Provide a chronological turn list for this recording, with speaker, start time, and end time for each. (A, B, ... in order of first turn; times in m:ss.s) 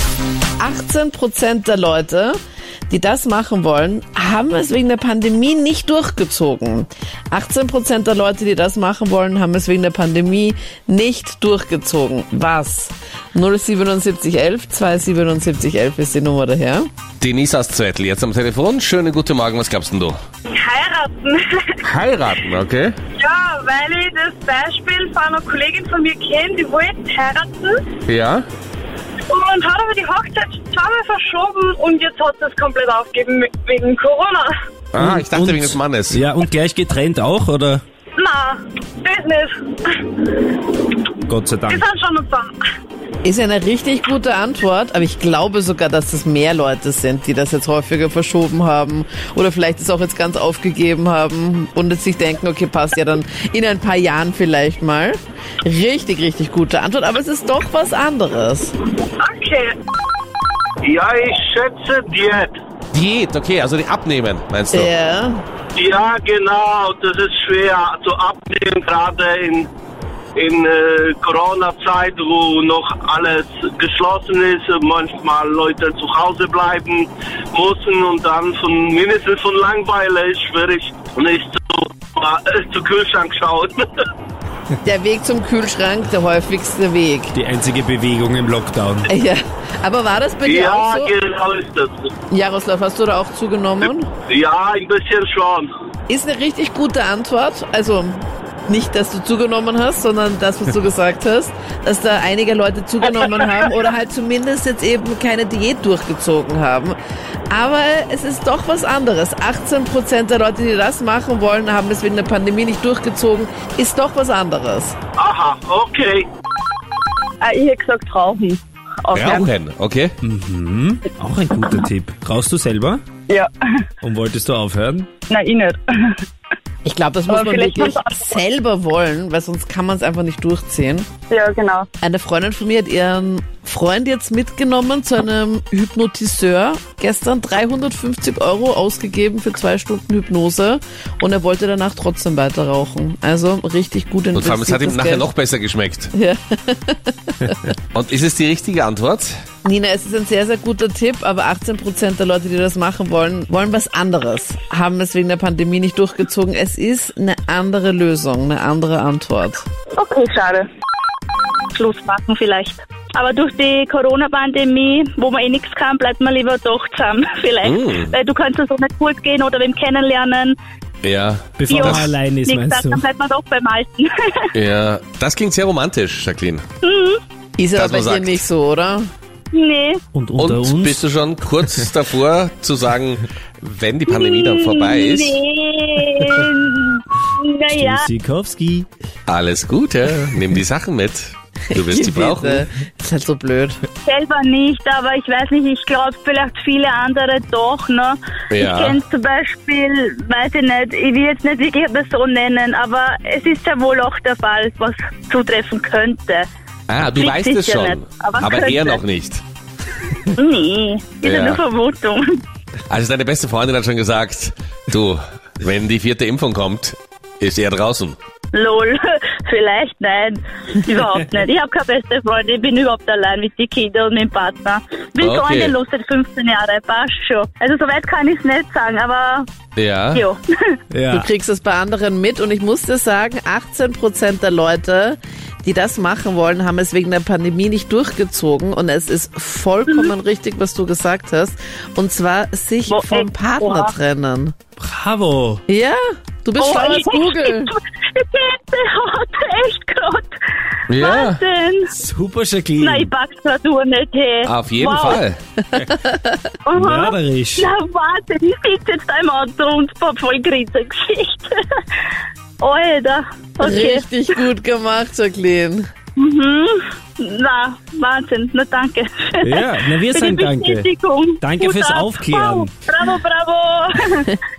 0:00.6-0:02.4 A
0:02.9-0:16.9 A
0:17.2-0:20.2 B
0:20.5-0:21.7 C
0:21.8-0:23.0 B
0:23.2-0:28.0 C
0:28.1-0:28.4 B
0:29.3-0:34.5 C
0:34.9-0:36.2 B
0:35.0-0:37.8 D
0:38.2-0:39.5 C
0:41.3-0:41.9 D
0:41.7-0:42.6 C
0:43.2-0:58.7 A
0:59.2-0:59.7 C
1:00.8-1:02.6 E
1:02.9-1:04.9 B
1:04.7-1:05.4 A
1:05.8-1:09.7 E
1:10.4-1:23.8 E
1:24.8-1:27.3 A
1:27.3-1:29.1 D
1:29.1-1:31.1 A
1:30.4-1:32.1 E
1:32.3-1:34.1 A
1:34.3-1:35.7 E
1:36.1-1:47.0 A
1:47.5-1:54.9 A
1:55.2-1:56.3 E
1:57.4-1:59.5 C
1:59.1-2:00.1 B
2:00.2-2:03.0 D
2:04.0-2:05.1 D
2:05.3-2:05.8 C
2:06.8-2:11.1 A
2:07.3-2:08.3 C
2:11.3-2:11.9 C
2:12.0-2:25.2 A
2:24.3-2:26.1 B
2:26.1-2:27.7 A
2:27.9-2:29.3 B
2:29.6-2:39.6 A
2:40.0-2:40.6 C
2:41.7-2:50.6 F
2:47.6-2:48.1 B
2:51.0-2:52.1 B
2:51.6-2:53.0 D
2:51.7-2:54.4 F
2:54.5-2:56.6 B
2:56.8-2:57.2 F
2:57.6-2:59.1 A
2:57.7-2:58.4 B
2:59.5-3:00.0 F
3:00.1-3:01.0 D
3:00.4-3:05.4 B
3:04.1-3:08.1 F
3:07.7-3:08.9 D
3:09.3-3:12.6 B
3:11.7-3:13.8 A
3:14.0-3:26.4 F
3:18.5-3:19.0 B
3:26.9-3:29.4 B
3:27.1-3:29.0 F
3:30.2-3:32.4 F
3:31.2-3:31.6 B
3:32.9-3:38.2 B
3:38.5-3:49.5 F
3:45.2-3:45.7 B
3:49.8-3:50.2 B
3:50.1-3:50.4 F
3:50.9-3:51.3 D
3:51.1-4:04.5 A
4:02.9-4:03.9 F
4:04.8-4:05.6 D
4:05.7-4:07.7 A
4:06.6-4:10.3 F
4:10.9-4:11.4 B
4:10.9-4:11.9 F
4:11.9-4:13.1 D
4:12.8-4:15.2 F
4:14.4-4:15.4 B
4:15.8-4:16.4 A
4:16.6-4:21.5 F
4:16.7-4:17.7 D
4:22.6-4:24.0 F
4:23.6-4:25.9 A
4:26.2-4:34.4 F
4:29.4-4:32.8 D